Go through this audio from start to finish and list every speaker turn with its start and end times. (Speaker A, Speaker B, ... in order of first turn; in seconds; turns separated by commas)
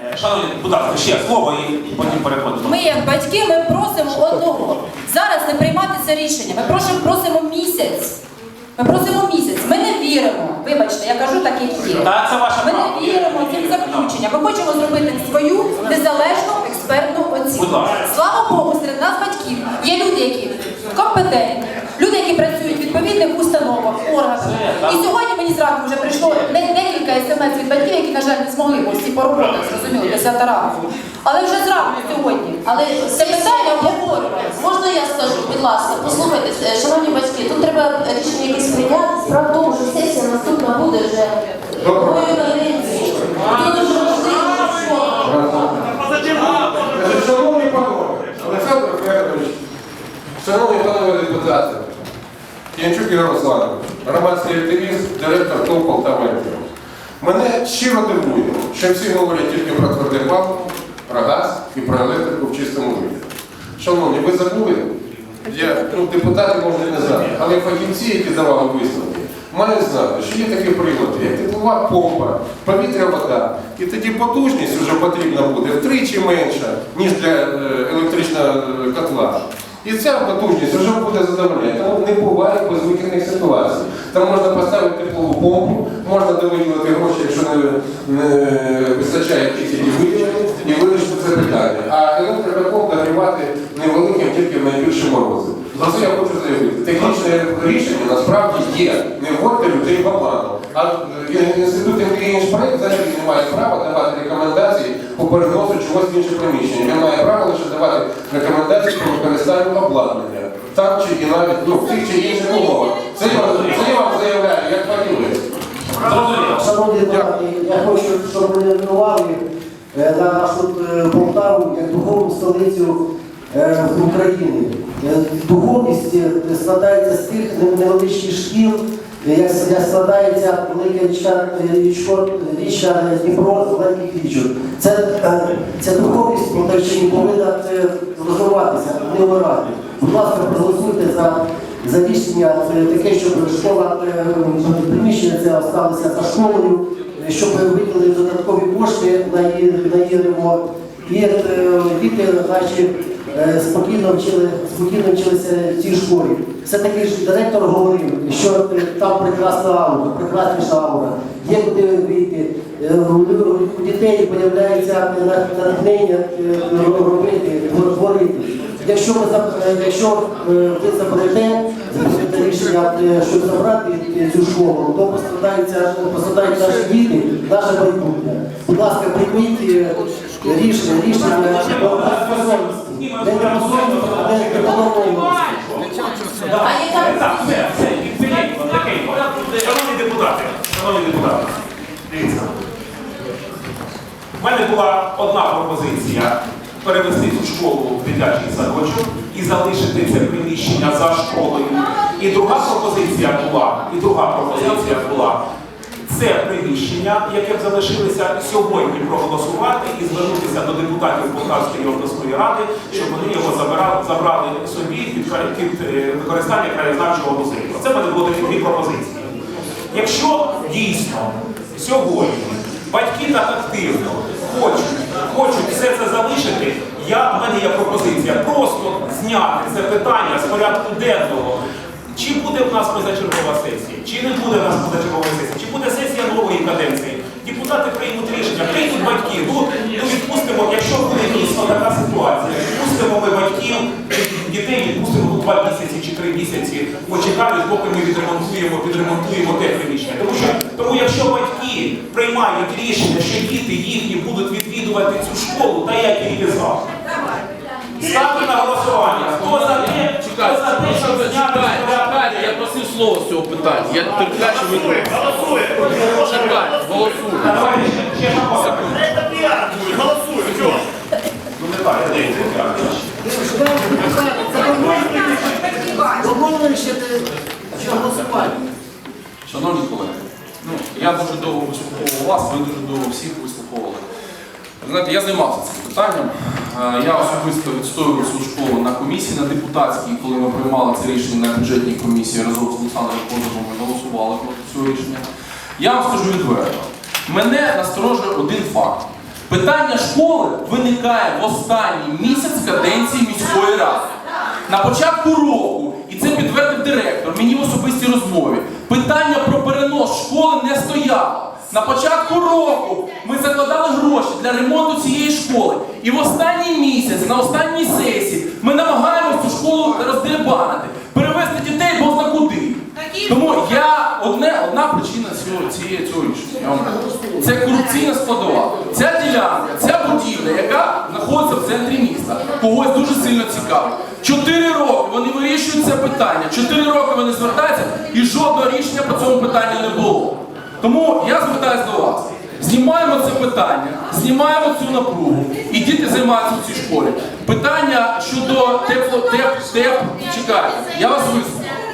Speaker A: 0.1-3.0, Speaker B: 2.6-8.1, Speaker B: 8.8-34.5, Speaker A: 12.0-14.2, Speaker A: 17.5-18.1, Speaker A: 24.5-24.9, Speaker C: 32.6-45.2, Speaker D: 41.8-42.3, Speaker D: 45.2-49.6, Speaker D: 50.4-51.9, Speaker D: 52.7-56.6, Speaker D: 57.2-115.4, Speaker A: 113.4-113.7, Speaker A: 116.0-116.6, Speaker E: 116.5-119.4, Speaker E: 119.9-123.0, Speaker E: 123.5-185.6, Speaker A: 181.3-192.5, Speaker C: 186.6-187.6, Speaker A: 194.4-205.4, Speaker A: 206.1-219.3, Speaker A: 219.9-231.6, Speaker A: 232.1-256.8, Speaker A: 258.0-262.5, Speaker F: 259.1-267.7, Speaker A: 267.4-269.5, Speaker F: 268.6-268.8, Speaker F: 269.7-270.3, Speaker A: 271.5-273.1, Speaker F: 279.4-284.0, Speaker F: 284.8-295.2, Speaker F: 295.8-304.1, Speaker F: 304.7-351.8